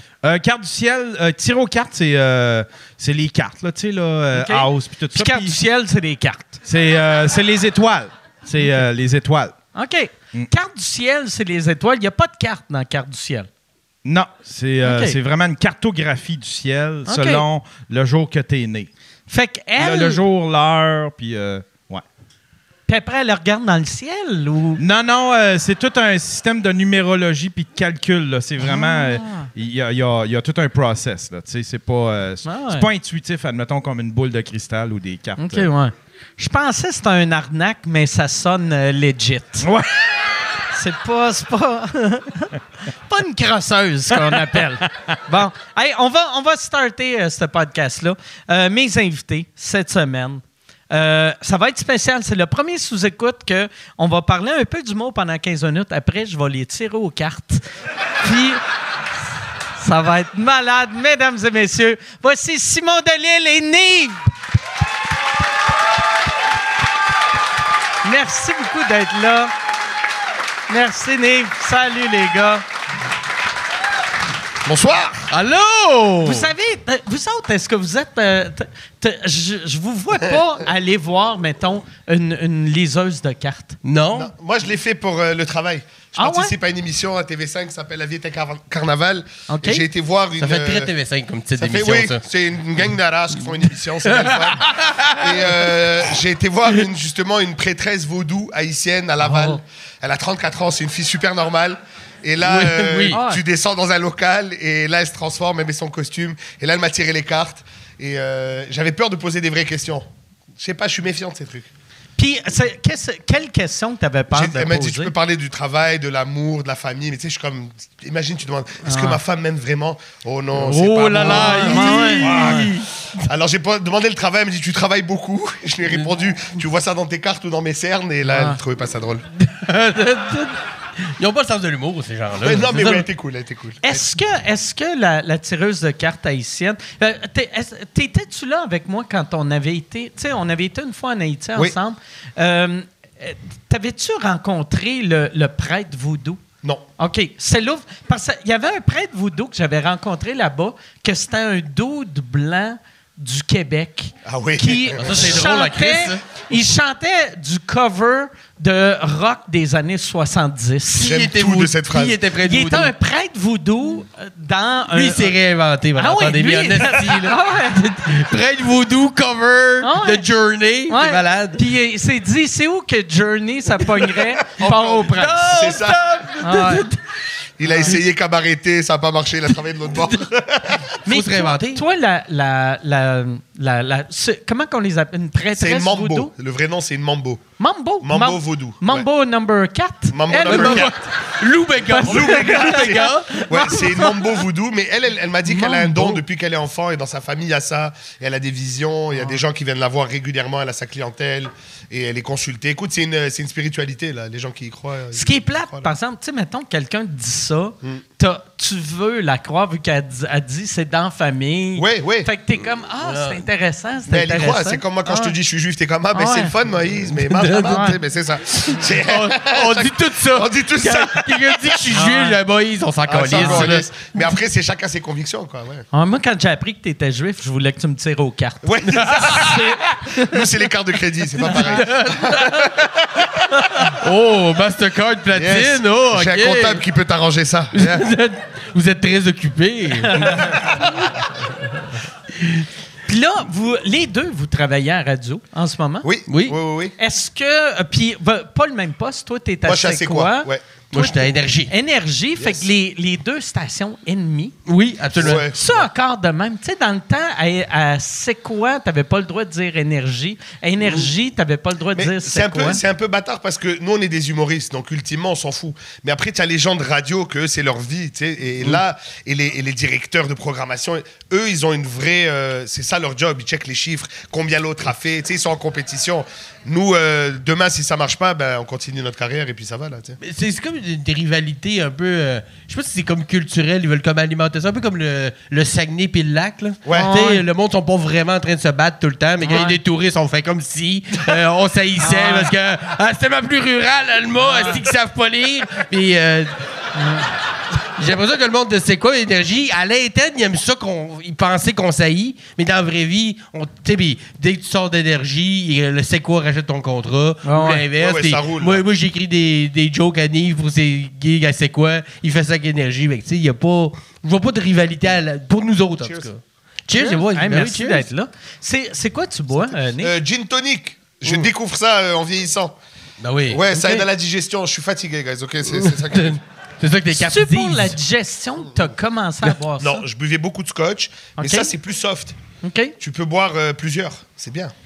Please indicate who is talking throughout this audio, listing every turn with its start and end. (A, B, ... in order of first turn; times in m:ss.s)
0:00.2-0:05.6 A
0:04.3-0:06.6 B
0:06.6-0:09.6 A
0:09.7-0:13.5 B
0:14.0-0:18.9 A
0:14.8-0:15.2 B
0:17.1-0:17.4 B
0:19.3-0:20.2 B
0:19.8-0:22.0 A
0:22.9-0:24.8 B
0:24.8-0:35.7 A
0:28.6-0:29.5 B
0:32.4-0:32.9 B
0:35.4-0:39.7 B
0:39.6-0:40.2 A
0:40.7-0:57.6 B
0:44.3-0:44.6 A
0:58.2-0:58.6 B
0:59.8-1:04.3 B
1:08.0-1:09.5 B
1:10.7-1:12.6 B
1:14.6-1:15.3 C
1:15.3-1:16.5 D
1:16.2-1:23.8 B
1:23.8-1:24.3 D
1:24.1-1:30.9 C
1:26.2-1:26.5 B
1:29.5-1:29.9 B
1:30.4-1:32.2 D
1:31.6-1:50.1 C
1:33.6-1:36.1 D
1:39.2-1:39.6 B
1:42.4-1:43.2 D
1:43.1-1:43.4 B
1:50.6-1:51.7 C
1:52.2-1:55.1 B
1:54.3-2:02.7 C
1:58.8-1:59.2 B
2:00.5-2:02.9 D
2:01.2-2:02.7 B
2:03.2-2:09.2 C
2:08.3-2:08.6 B
2:09.4-2:13.1 D
2:12.4-2:14.0 C
2:13.8-2:26.4 B
2:27.0-2:41.2 B
2:34.3-2:35.4 C
2:35.0-2:36.2 D
2:41.0-2:42.2 C
2:41.0-2:42.9 D
2:42.4-2:45.4 B
2:44.9-2:51.6 D
2:46.0-2:47.8 B
2:49.8-2:50.3 B
2:50.9-2:55.5 B
2:54.5-2:56.0 C
2:55.1-2:57.0 D
2:56.4-2:56.9 B
2:57.6-3:00.9 C
2:57.7-2:58.0 B
2:57.8-2:58.0 D
3:00.9-3:01.8 D
3:01.1-3:06.3 B
3:05.6-3:07.4 C
3:07.6-3:11.0 B
3:08.0-3:09.0 C
3:10.1-3:11.0 C
3:10.4-3:13.9 D
3:11.8-3:14.2 B
3:12.0-3:25.9 C
3:15.5-3:16.2 B
3:19.1-3:19.4 B
3:25.1-3:35.4 B
3:31.8-3:32.3 C
3:33.0-3:33.4 D
3:34.1-3:41.8 C
3:36.1-3:36.6 B
3:37.0-3:44.1 D
3:37.6-3:38.0 B
3:41.9-3:42.4 B
3:43.1-3:45.9 C
3:43.4-3:43.8 B
3:45.9-3:50.5 B
3:48.6-3:54.0 C
3:48.9-3:49.7 D
3:51.4-3:52.8 D
3:51.4-3:51.8 B
3:53.7-3:56.8 D
3:55.4-3:58.0 C
3:57.7-4:00.9 D
4:00.0-4:00.7 B
4:03.1-4:06.1 B
4:06.0-4:07.0 C
4:06.3-4:06.6 D
4:07.0-4:14.6 B
4:09.6-4:10.6 C
4:10.9-4:11.7 D
4:12.4-4:12.6 C
4:14.7-4:15.5 D
4:15.2-4:15.9 C
4:15.2-4:22.8 B
4:22.0-4:40.2 C
4:40.2-4:56.5 D
4:46.9-4:47.4 B
4:49.4-4:49.8 B
4:52.0-4:52.5 B
4:54.4-4:54.8 B
4:57.0-4:57.3 B
4:58.0-5:18.0 D
5:07.4-5:07.8 B
5:08.0-5:08.8 C
5:16.9-5:20.2 B
5:20.0-5:22.8 C
5:23.2-5:23.6 D
5:23.5-5:26.4 C
5:23.7-5:24.1 B
5:25.7-5:28.0 D
5:27.1-5:30.0 B
5:29.8-5:32.4 C
5:31.4-5:31.7 B
5:32.6-5:33.0 B
5:33.0-5:34.7 C